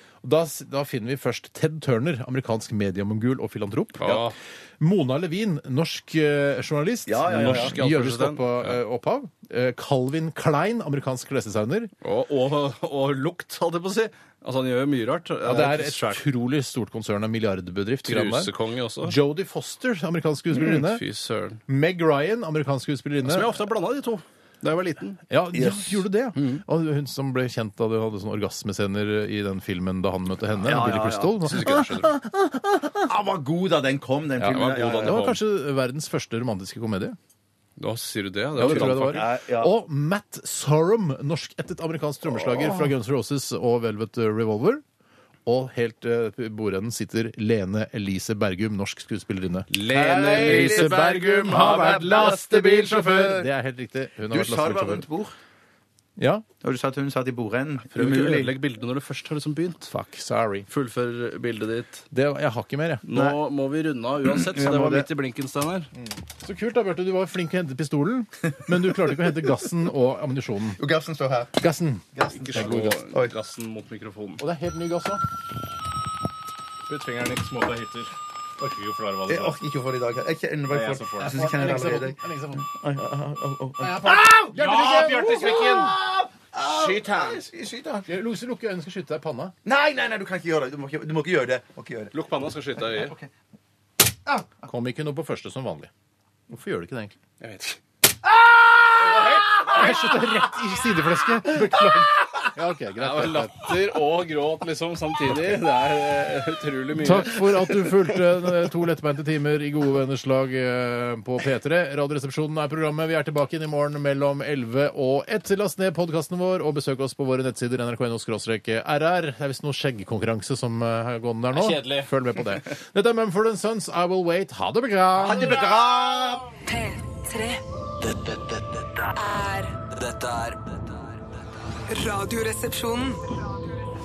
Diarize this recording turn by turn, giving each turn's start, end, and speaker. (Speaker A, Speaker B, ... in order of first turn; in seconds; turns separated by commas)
Speaker A: 0.2-11.9, Speaker B: 4.0-4.4, Speaker C: 7.1-7.8, Speaker B: 7.3-8.8, Speaker B: 12.0-16.2, Speaker A: 15.4-18.5, Speaker B: 18.0-19.2, Speaker A: 19.0-21.0, Speaker B: 20.5-21.6, Speaker A: 21.7-23.5, Speaker B: 23.2-25.2, Speaker A: 25.3-33.1, Speaker C: 25.5-26.0, Speaker B: 26.4-26.6, Speaker C: 30.6-31.4, Speaker B: 31.4-32.1, Speaker C: 33.1-35.2, Speaker A: 34.4-37.2, Speaker B: 34.4-35.4, Speaker B: 37.8-39.3, Speaker A: 38.6-44.8, Speaker C: 38.6-39.7, Speaker C: 42.5-42.9, Speaker A: 45.5-55.1, Speaker B: 49.7-52.3, Speaker C: 50.0-53.5, Speaker C: 54.3-55.4, Speaker A: 56.2-56.5, Speaker C: 56.6-58.5, Speaker B: 57.9-59.9, Speaker A: 59.9-60.7, Speaker B: 60.7-62.0, Speaker A: 62.1-63.1, Speaker B: 63.1-65.9, Speaker C: 64.2-65.1, Speaker A: 66.0-70.8, Speaker C: 70.8-71.6, Speaker A: 71.6-73.0, Speaker C: 72.2-73.3, Speaker B: 72.3-74.5, Speaker A: 74.4-75.2, Speaker B: 76.9-79.6, Speaker C: 79.3-88.1, Speaker B: 80.7-81.4, Speaker A: 81.2-82.6, Speaker A: 83.8-85.3, Speaker B: 84.5-85.9, Speaker B: 86.6-87.5, Speaker A: 88.1-89.5, Speaker C: 89.7-92.1, Speaker B: 92.1-93.2, Speaker C: 92.8-93.3, Speaker A: 94.7-95.9, Speaker A: 96.5-97.2, Speaker B: 97.4-97.8, Speaker B: 99.0-100.2, Speaker A: 99.7-103.7, Speaker B: 103.0-107.9, Speaker A: 107.0-125.6, Speaker B: 121.5-122.1, Speaker C: 125.2-126.5, Speaker D: 126.7-127.6, Speaker E: 128.0-129.2, Speaker D: 129.2-129.8, Speaker E: 129.9-131.2, Speaker D: 131.9-133.3